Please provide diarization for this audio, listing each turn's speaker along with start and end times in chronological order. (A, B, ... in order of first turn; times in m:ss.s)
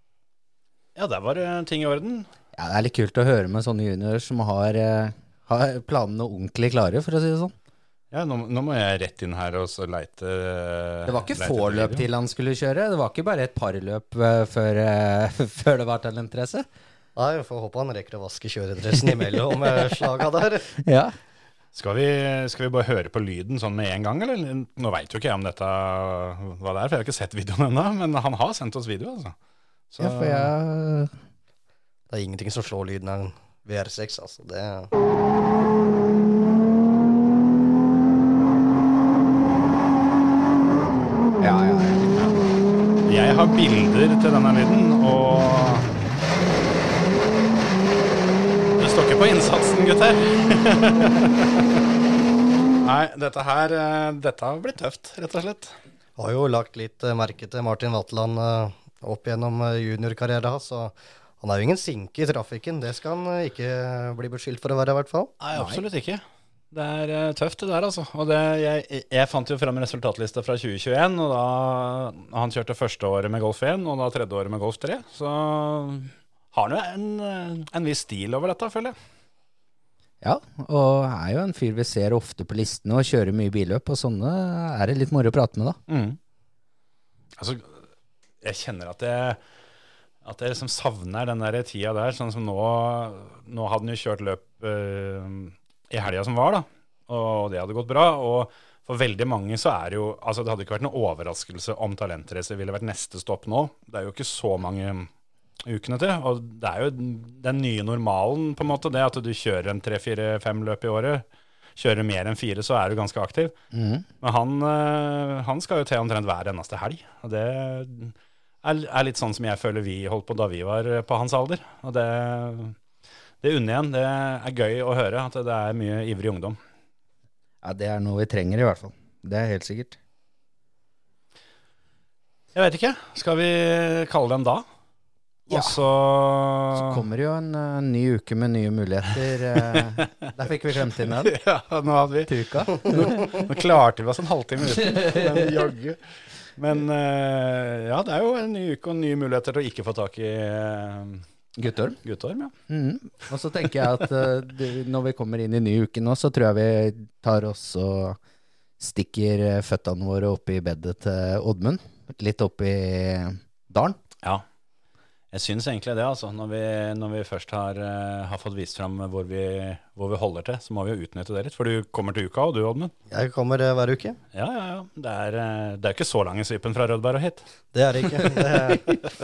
0:01.0-0:02.3 A
0:02.6-0:07.5 B
0:08.1-0:12.0 A
0:11.1-0:16.7 B
0:17.2-0:20.8 C
0:20.8-0:21.1 B
0:21.8-0:29.3 A
0:29.9-0:30.5 A
0:30.0-0:31.1 B
0:32.1-0:34.9 C
0:41.4-0:42.5 B
0:43.1-0:45.9 A
0:48.8-0:51.8 A
0:52.8-0:55.8 A
0:56.2-1:05.3 C
1:05.4-1:19.0 A
1:05.5-1:05.8 B
1:20.2-1:25.8 B
1:25.9-1:26.2 A
1:27.4-1:27.8 A
1:28.4-1:29.4 A
1:30.2-1:45.1 A
1:45.6-1:51.2 A
1:51.8-1:53.6 A
1:53.7-1:54.0 B
1:54.2-2:02.8 A
2:03.4-2:06.6 A
2:07.6-2:10.0 B
2:12.6-2:14.6 A
2:15.5-2:17.0 A
2:15.5-2:15.8 B
2:16.8-2:21.3 B
2:19.5-2:20.3 A
2:20.9-2:26.0 A
2:22.3-2:23.4 B
2:26.6-2:31.3 A
2:31.6-2:32.0 B
2:32.0-2:32.5 A
2:32.7-2:38.2 B
2:38.8-2:44.0 B
2:45.3-2:52.9 A
2:53.1-2:54.2 C
2:54.3-2:57.4 A
2:57.7-2:59.1 C